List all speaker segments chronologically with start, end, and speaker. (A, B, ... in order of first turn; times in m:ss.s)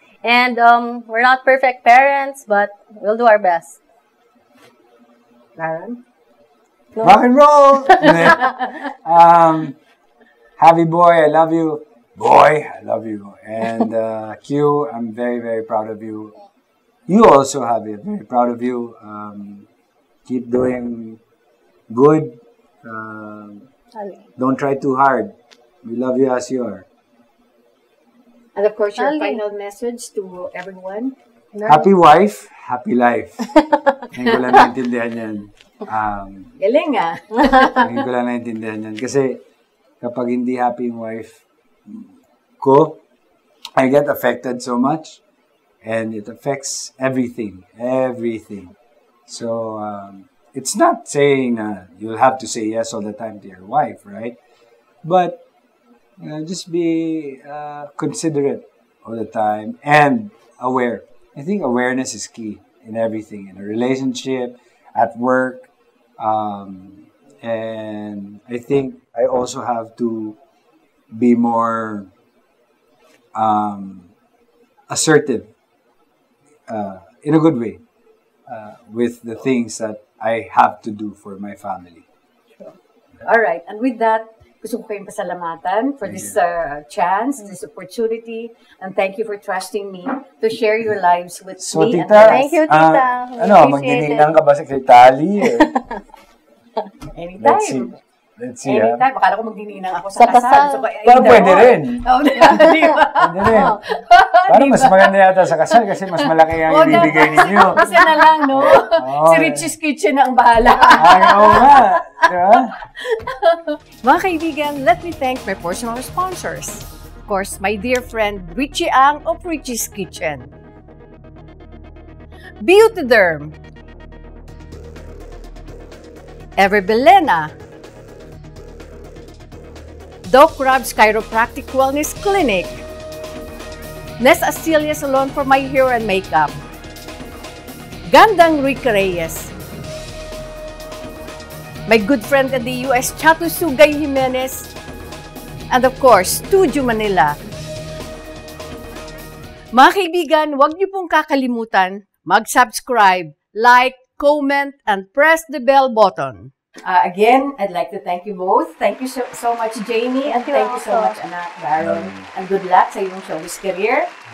0:00.2-0:03.8 A
0:05.6-0:06.0 B
0:07.0-0:07.2 A
0:07.0-0:09.8 C
0:07.8-0:08.6 A
0:10.6-0:16.3 C
0:17.1-0:19.7 C
0:20.2-0:21.2 C
0:21.9-0:23.7 C
0:24.0-0:24.3 A
0:24.4-0:25.3 C
0:25.8-0:26.8 C
0:28.5-0:31.1 B
0:29.0-0:29.4 A
0:31.5-0:31.9 A
0:31.6-0:33.5 C
0:33.6-0:34.0 A
0:34.1-0:36.6 C
0:36.6-0:38.0 B
0:37.7-0:39.4 C
0:40.0-0:43.0 C
0:43.8-0:45.2 C
0:45.8-0:48.7 C
0:49.3-0:54.4 C
0:55.0-0:55.4 C
0:56.2-1:10.4 C
1:11.1-1:12.1 C
1:13.3-1:14.1 C
1:14.9-1:15.5 C
1:16.7-1:17.8 C
1:18.5-1:22.0 C
1:23.2-1:32.5 B
1:26.0-1:26.4 C
1:31.6-1:35.7 C
1:32.2-1:34.3 A
1:35.5-1:36.0 A
1:37.1-1:38.0 B
1:37.4-1:39.0 C
1:38.6-2:00.5 B
1:40.2-1:40.9 A
1:41.0-1:42.0 C
1:42.4-1:43.8 A
1:43.1-1:43.8 C
1:44.5-1:49.7 C
1:51.0-1:52.8 C
2:02.6-2:03.6 B
2:06.6-2:07.5 B
2:10.2-2:12.8 B
2:14.2-2:16.6 B
2:18.1-2:19.5 B
2:21.9-2:24.7 B
2:25.7-2:27.4 B
2:29.7-2:44.1 B
2:40.3-2:41.2 A
2:41.8-2:42.2 C